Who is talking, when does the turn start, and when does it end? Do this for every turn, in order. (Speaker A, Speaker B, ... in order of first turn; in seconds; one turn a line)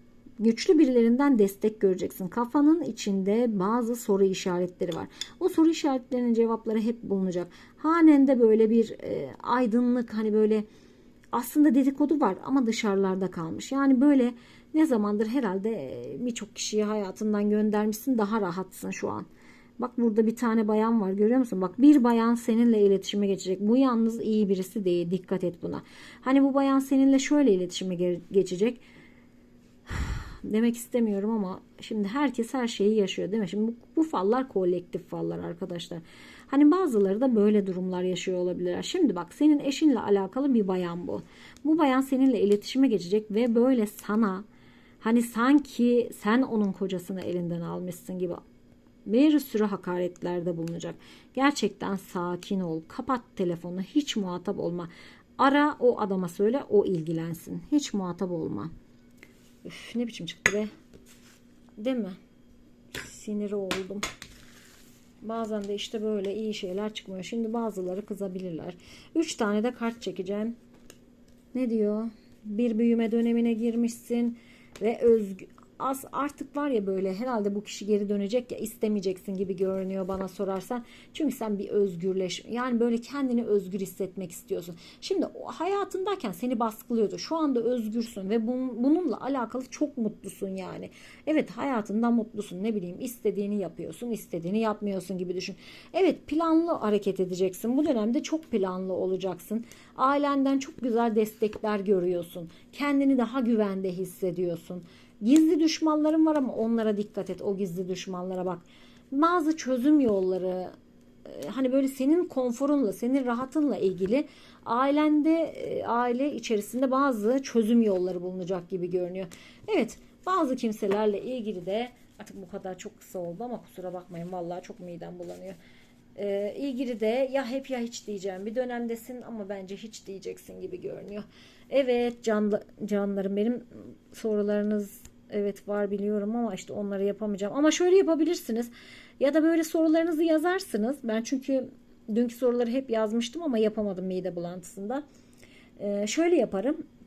Speaker A: 0.4-10.6
Speaker A: 11.3-19.3
Speaker A: 19.8-28.8
Speaker A: 29.9-44.5
Speaker A: 45.0-48.4
Speaker A: 49.1-58.7
Speaker A: 59.6-60.7
Speaker A: 61.8-62.2
Speaker A: 62.9-64.0
Speaker A: 65.2-70.6
Speaker A: 71.5-110.7
Speaker A: 111.2-125.6
Speaker A: 126.1-145.0
Speaker A: 145.8-146.8